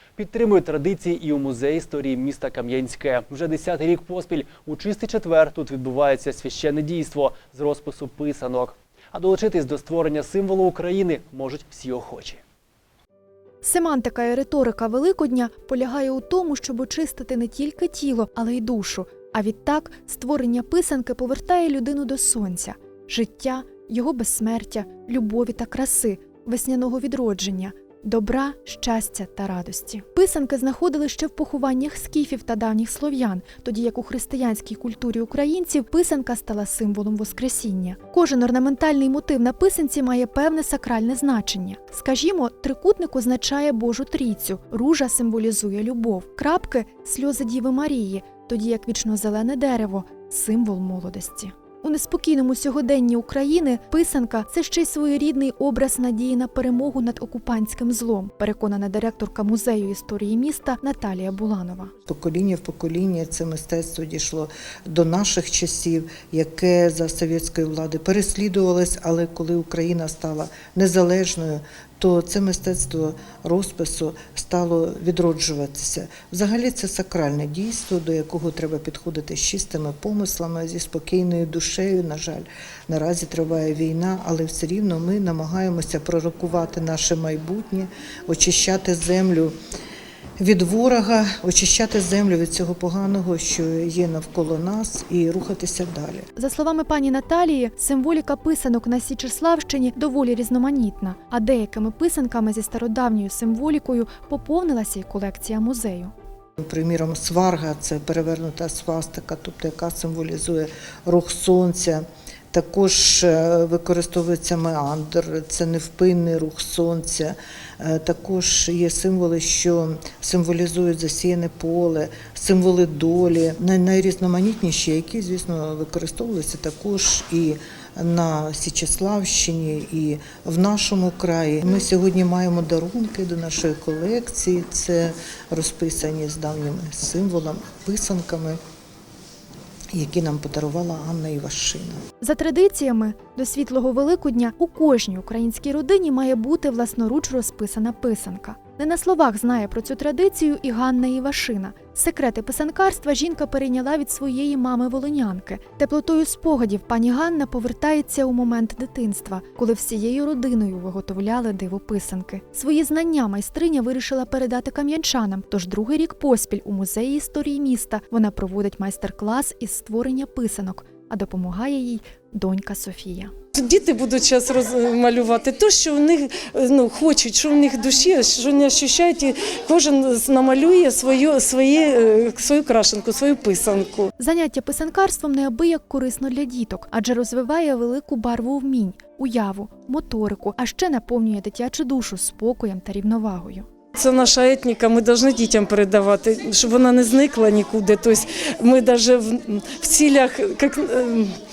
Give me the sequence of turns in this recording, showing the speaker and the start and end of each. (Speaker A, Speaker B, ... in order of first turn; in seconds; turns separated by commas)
Speaker A: 0.2-12.4, Speaker B: 13.6-61.9, Speaker C: 62.1-89.5, Speaker C: 90.4-96.3, Speaker B: 96.4-106.1, Speaker C: 106.6-138.6, Speaker C: 139.9-142.0, Speaker B: 142.2-173.3, Speaker D: 173.6-184.1, Speaker B: 184.3-193.7, Speaker D: 194.0-201.3